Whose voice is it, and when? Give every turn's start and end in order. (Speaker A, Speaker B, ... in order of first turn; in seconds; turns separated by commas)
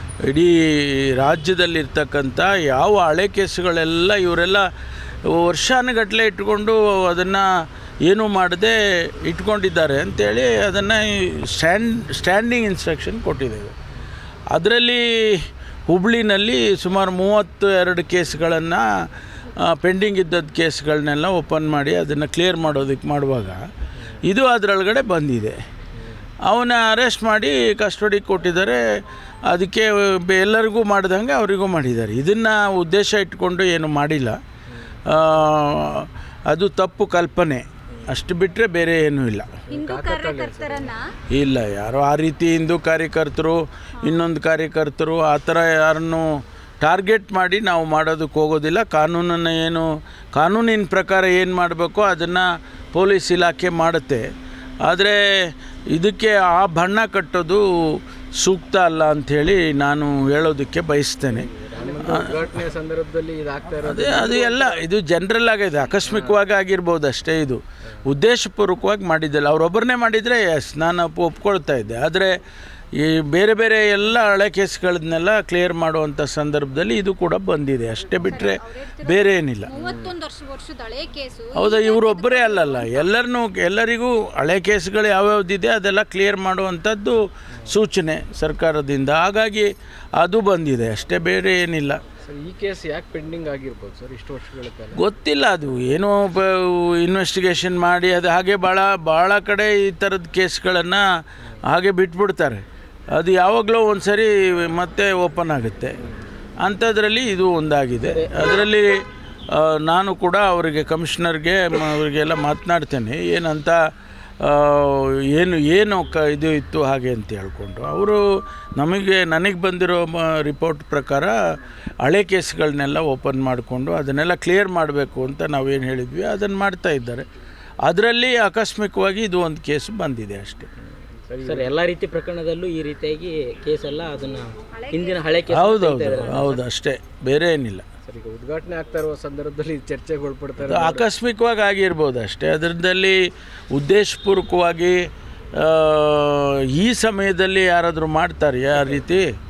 Speaker A: 0.2-4.7, Speaker A: 5.3-7.5, Speaker A: 8.1-13.8, Speaker A: 14.5-18.9, Speaker A: 19.7-23.6, Speaker A: 24.2-25.6, Speaker B: 26.0-26.2, Speaker A: 26.4-28.8, Speaker A: 29.5-34.4, Speaker A: 35.1-39.6, Speaker B: 39.7-41.0, Speaker C: 39.7-41.0, Speaker A: 41.3-46.3, Speaker A: 46.8-54.3, Speaker A: 54.9-62.5, Speaker B: 61.3-64.9, Speaker A: 63.8-72.3, Speaker B: 66.0-66.4, Speaker A: 73.0-79.7, Speaker C: 78.2-83.2, Speaker B: 79.7-80.1, Speaker A: 81.5-92.0, Speaker B: 92.2-95.0, Speaker A: 94.9-101.0, Speaker A: 101.7-102.6, Speaker A: 103.1-106.0, Speaker A: 106.6-113.8, Speaker D: 108.0-108.7, Speaker A: 114.4-118.2, Speaker A: 118.8-121.3, Speaker A: 122.0-127.2, Speaker A: 127.9-130.7, Speaker B: 131.3-131.8, Speaker D: 131.4-136.6, Speaker C: 134.7-136.5, Speaker A: 135.5-137.8, Speaker B: 138.1-141.1, Speaker A: 140.6-143.2, Speaker A: 143.7-149.3, Speaker B: 148.7-149.1